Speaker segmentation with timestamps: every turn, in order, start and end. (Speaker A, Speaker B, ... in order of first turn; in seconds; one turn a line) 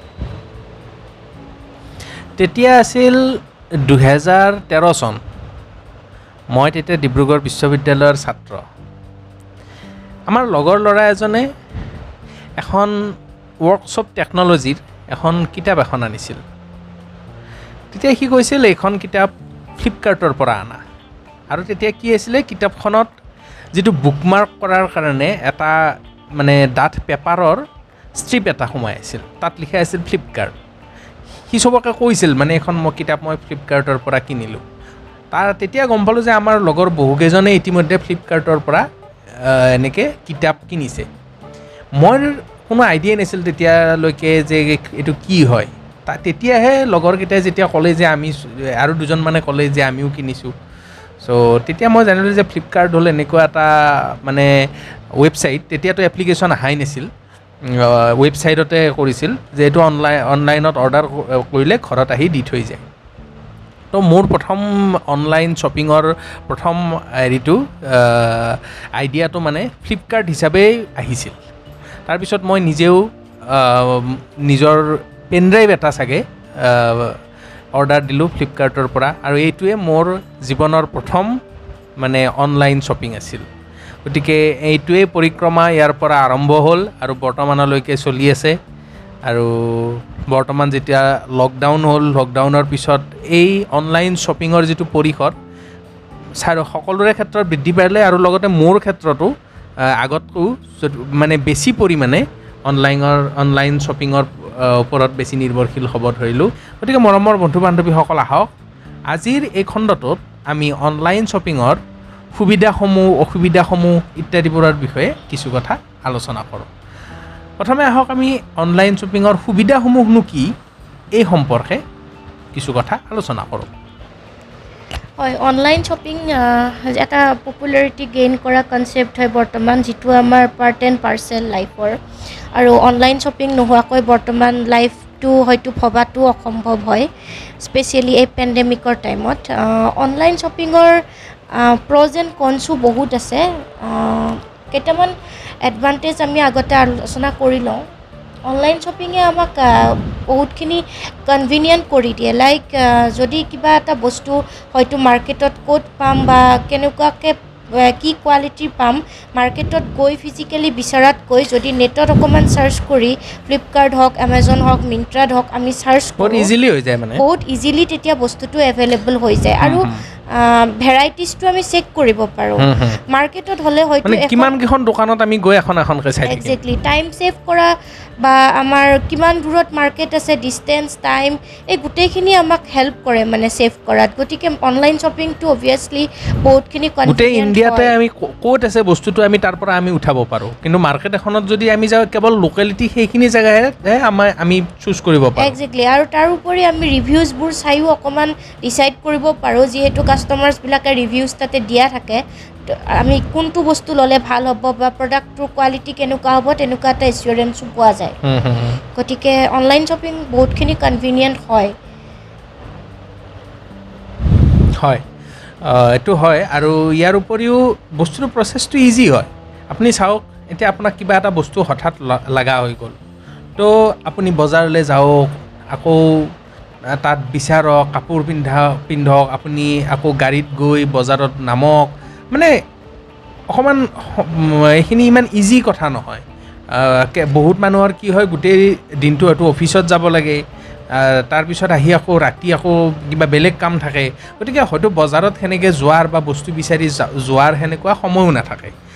Speaker A: 2.4-5.2
Speaker A: 6.5-8.6
Speaker A: 10.3-11.5
Speaker A: 12.6-12.9
Speaker A: 13.6-16.4
Speaker A: 17.9-20.8
Speaker A: 21.5-23.1
Speaker A: 23.8-27.6
Speaker A: 28.2-30.5
Speaker A: 31.5-34.6
Speaker A: 35.3-38.9
Speaker A: 39.4-41.1
Speaker A: 42.0-50.5
Speaker A: 51.2-54.5
Speaker A: 55.2-57.1
Speaker A: 57.7-62.8
Speaker A: 63.9-71.4
Speaker A: 72.1-77.2
Speaker A: 77.7-81.4
Speaker A: 82.0-83.5
Speaker A: 84.0-88.6
Speaker A: 89.3-95.3
Speaker A: 96.4-99.3
Speaker A: 99.8-108.5
Speaker A: 109.1-111.8
Speaker A: 112.3-116.7
Speaker A: 117.6-120.5
Speaker A: 121.2-121.8
Speaker A: 122.5-123.7
Speaker B: 125.2-131.9
Speaker B: 132.6-137.1
Speaker B: 137.6-141.0
Speaker B: 141.6-147.8
Speaker B: 148.5-166.5
Speaker A: 166.2-167.2
Speaker B: 167.2-174.5
Speaker A: 169.6-170.0
Speaker A: 172.6-173.0
Speaker A: 174.0-176.6
Speaker B: 176.3-177.7
Speaker B: 178.2-187.9
Speaker A: 187.1-195.6
Speaker B: 195.4-208.2
Speaker A: 208.2-208.8
Speaker B: 209.0-211.7
Speaker A: 214.8-215.0
Speaker A: 215.6-223.0
Speaker A: 223.6-226.3
Speaker A: 227.0-232.5
Speaker A: 233.5-240.4
Speaker A: 240.9-248.8